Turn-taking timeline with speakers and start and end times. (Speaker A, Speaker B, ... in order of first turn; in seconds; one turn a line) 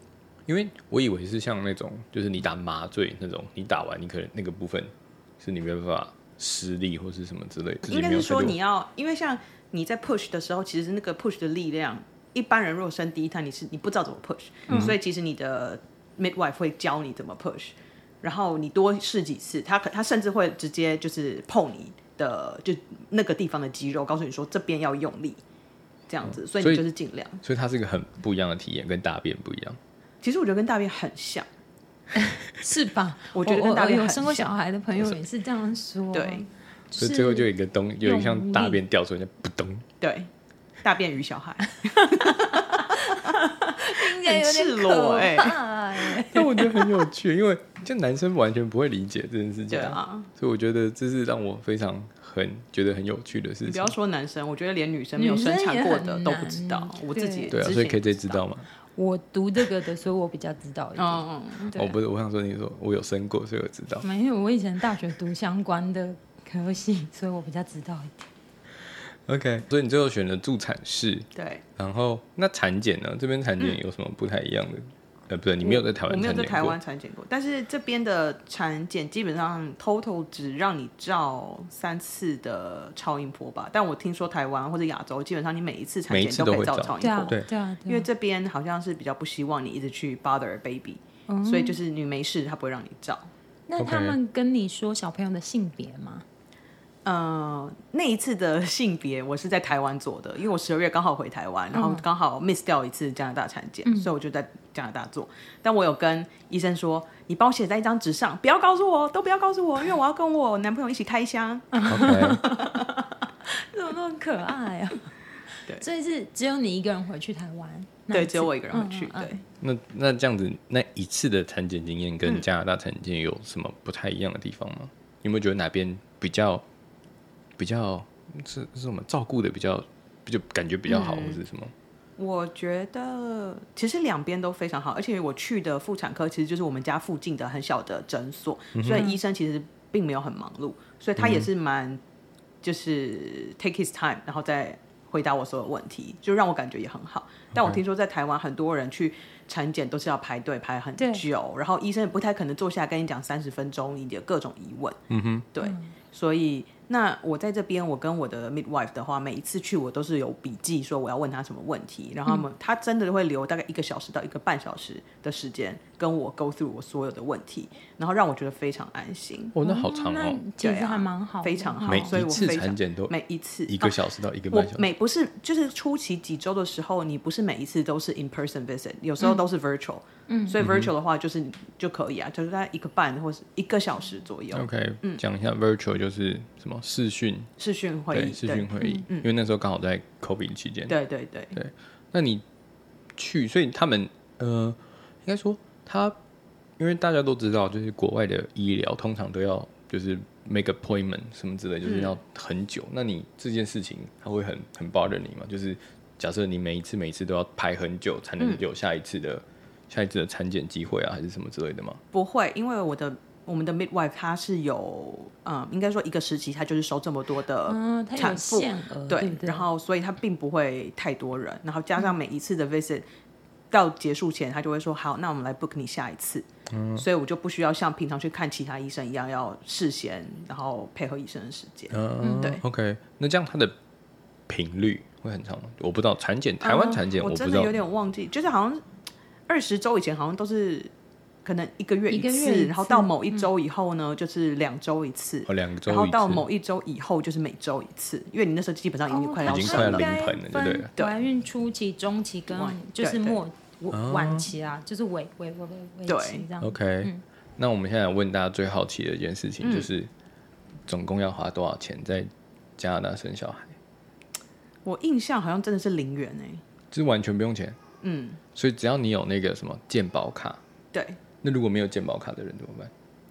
Speaker A: 0.5-8.6
Speaker B: 7.9-25.4
Speaker B: 26.1-27.4
Speaker A: 26.5-26.8
Speaker A: 27.4-29.8
Speaker B: 30.2-31.5
Speaker C: 32.1-37.5
Speaker B: 33.3-34.5
Speaker B: 36.1-36.5
Speaker A: 37.0-39.9
Speaker C: 38.0-38.8
Speaker B: 40.0-40.3
Speaker B: 40.8-45.5
Speaker C: 41.8-47.0
Speaker A: 46.2-53.9
Speaker B: 49.7-50.3
Speaker B: 53.6-58.4
Speaker C: 55.2-57.6
Speaker A: 57.5-58.6
Speaker C: 58.9-62.0
Speaker B: 61.0-61.7
Speaker A: 61.7-64.0
Speaker C: 64.0-68.3
Speaker A: 69.2-76.8
Speaker B: 71.3-71.6
Speaker B: 75.6-93.3
Speaker A: 86.1-87.5
Speaker C: 87.0-88.1
Speaker C: 91.3-91.8
Speaker C: 93.7-96.2
Speaker A: 93.8-94.2
Speaker B: 97.0-112.9
Speaker C: 101.7-102.0
Speaker C: 111.7-115.1
Speaker A: 111.8-112.4
Speaker C: 115.7-119.3
Speaker B: 118.1-119.4
Speaker A: 119.6-126.6
Speaker A: 127.6-131.7
Speaker B: 130.9-131.4
Speaker B: 132.2-142.0
Speaker A: 138.7-139.1
Speaker A: 141.2-141.5
Speaker B: 142.6-155.0
Speaker A: 147.5-147.8
Speaker C: 151.0-151.2
Speaker A: 155.1-155.5
Speaker B: 155.5-169.5
Speaker C: 155.6-155.9
Speaker A: 169.5-170.4
Speaker C: 169.6-172.2
Speaker B: 170.6-185.2
Speaker A: 171.8-174.8
Speaker C: 180.3-180.6
Speaker A: 180.6-180.9
Speaker A: 184.5-187.5
Speaker B: 187.6-189.3
Speaker A: 188.1-190.9
Speaker C: 188.8-189.0
Speaker B: 190.9-191.6
Speaker A: 191.5-192.4
Speaker A: 193.1-196.2
Speaker A: 196.8-212.0
Speaker B: 201.8-202.2
Speaker B: 212.1-223.0
Speaker C: 217.7-219.7
Speaker B: 223.7-232.6
Speaker A: 226.7-227.0
Speaker A: 231.9-233.7
Speaker C: 232.2-232.5
Speaker A: 234.5-237.7
Speaker B: 236.6-238.8
Speaker B: 239.5-240.9
Speaker B: 241.4-250.1
Speaker C: 242.1-243.5
Speaker A: 245.4-246.5
Speaker C: 249.1-257.2
Speaker A: 249.4-250.9
Speaker B: 252.5-253.4
Speaker A: 253.9-254.5
Speaker B: 256.1-256.4
Speaker A: 256.6-260.1
Speaker B: 259.6-259.9
Speaker A: 260.9-263.8
Speaker B: 264.8-266.6
Speaker A: 266.9-267.8
Speaker B: 268.0-268.4
Speaker A: 268.5-270.6
Speaker B: 270.9-271.2
Speaker A: 271.4-272.9